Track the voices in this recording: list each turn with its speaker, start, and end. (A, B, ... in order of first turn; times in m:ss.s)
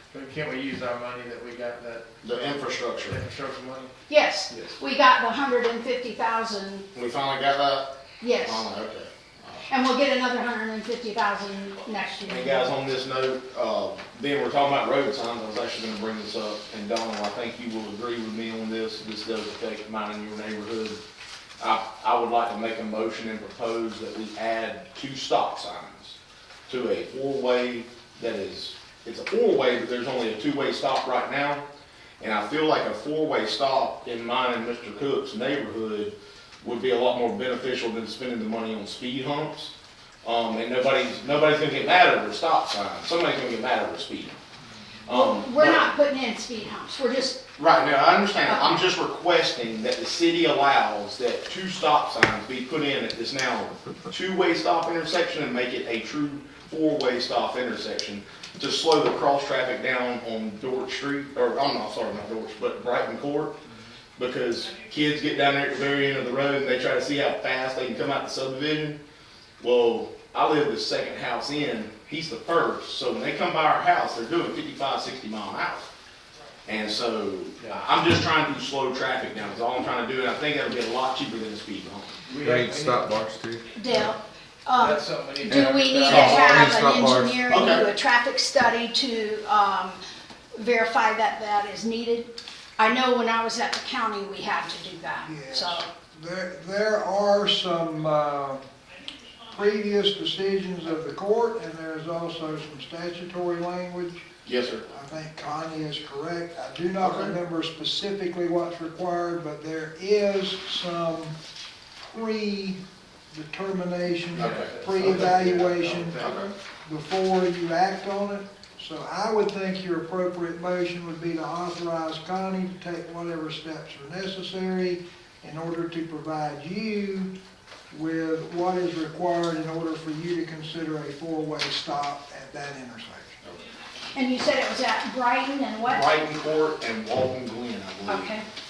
0:00.1-0:03.9 A
0:02.2-0:03.2 B
0:04.1-0:06.8 C
0:04.5-0:04.7 A
0:06.9-0:07.8 B
0:08.2-0:08.7 C
0:08.4-0:09.7 B
0:09.7-0:12.7 C
0:12.2-0:21.0 B
0:21.6-0:26.2 B
0:26.7-0:31.6 B
0:32.2-0:39.7 B
0:40.2-0:44.3 B
0:45.0-0:45.9 B
0:45.1-0:47.4 C
0:47.6-1:03.6 B
0:48.5-0:48.9 C
1:04.2-1:09.0 B
1:09.6-1:15.9 B
1:16.6-1:22.2 B
1:22.3-1:23.2 A
1:22.4-1:23.6 D
1:23.8-1:30.0 C
1:24.8-1:26.6 A
1:26.1-1:27.3 D
1:27.4-1:27.8 B
1:30.5-1:35.9 C
1:35.2-1:38.7 E
1:39.5-1:44.2 E
1:44.4-1:44.8 B
1:44.9-1:51.4 E
1:47.0-1:47.3 B
1:52.0-1:52.8 E
1:53.3-2:07.3 E
1:54.3-1:56.5 A
1:54.4-1:54.7 B
1:56.2-1:56.5 B
2:07.9-2:13.4 E
2:14.1-2:16.0 C
2:15.8-2:18.3 B
2:18.1-2:18.4 C